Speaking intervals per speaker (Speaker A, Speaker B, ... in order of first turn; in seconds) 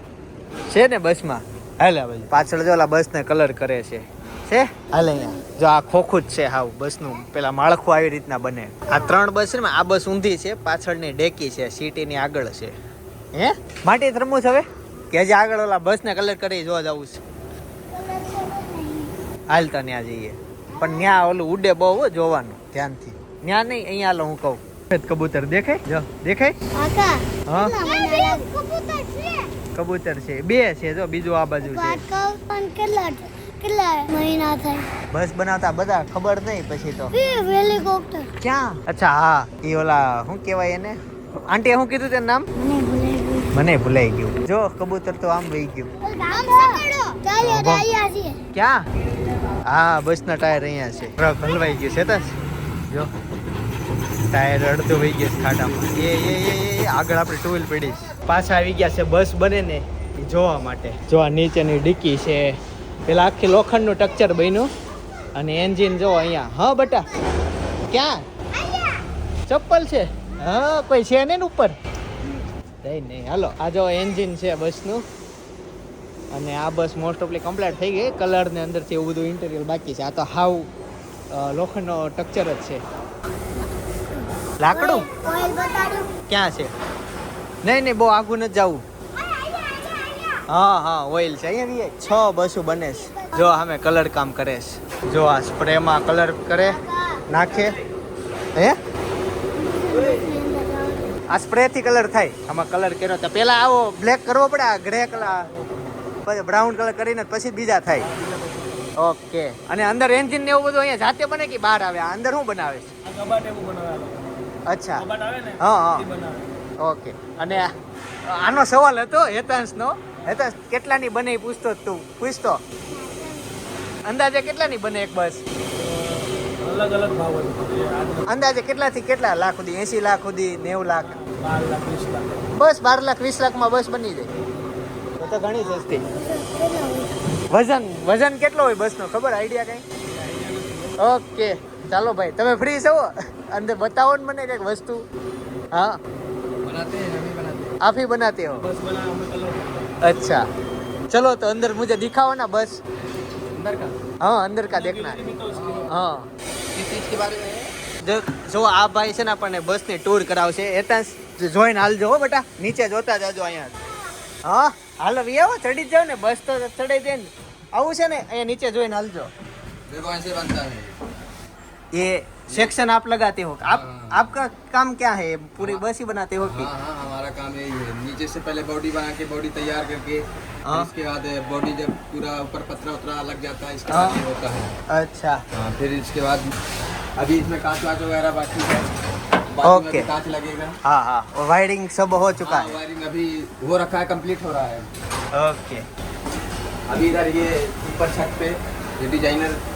Speaker A: 0.7-12.7, 13.3-17.2, 19.5-26.6, 27.5-27.9, 29.7-32.0, 35.1-37.1, 38.4-42.5, 43.5-45.9, 47.4-47.9, 48.5-48.9, 49.6-52.3, 54.3-64.7, 65.3-67.1, 67.9-68.2, 69.5-71.8, 72.8-75.0, 76.3-80.7, 81.3-82.8, 84.6-85.1, 86.3-86.7, 87.6-88.8, 90.5-96.8, 97.3-97.8, 101.3-105.5, 106.2-108.1, 109.0-112.9, 114.7-115.0, 115.6-116.0, 116.8-117.7, 118.2-122.6, 124.0-125.4, 128.3-131.1, 132.5-134.3, 135.2-136.0, 137.5-139.8, 141.0-145.1, 145.7-146.0, 147.8-148.7, 150.0-150.4, 151.1-152.8, 154.2-155.2, 155.9-156.3, 158.0-163.8, 164.4-169.3, 171.9-176.7, 183.9-184.2, 184.9-185.4, 189.6-190.1, 190.8-192.8, 195.3-195.8
Speaker B: 4.9-5.4, 8.8-9.2, 17.9-19.1, 20.7-21.2, 26.7-29.5, 31.6-34.9, 37.1-38.3, 42.5-43.5, 46.0-48.4, 51.2-52.3, 66.8-67.4, 68.5-69.0, 84.7-86.1, 89.1-90.4, 92.0-93.6, 96.5-97.2, 99.5-101.1, 122.9-123.6, 135.2-137.1
Speaker C: 105.3-106.0, 108.0-108.9, 113.0-116.7, 125.8-128.4, 131.0-132.5, 140.0-141.0, 148.6-150.0, 154.7-155.9
Speaker D: 146.6-147.8, 153.5-153.9, 155.5-155.9, 156.7-157.7, 169.9-170.9, 173.7-174.3, 175.6-175.8, 176.4-184.7, 185.5-186.5, 187.2-188.9, 189.5-190.8, 192.4-194.9, 196.9-199.6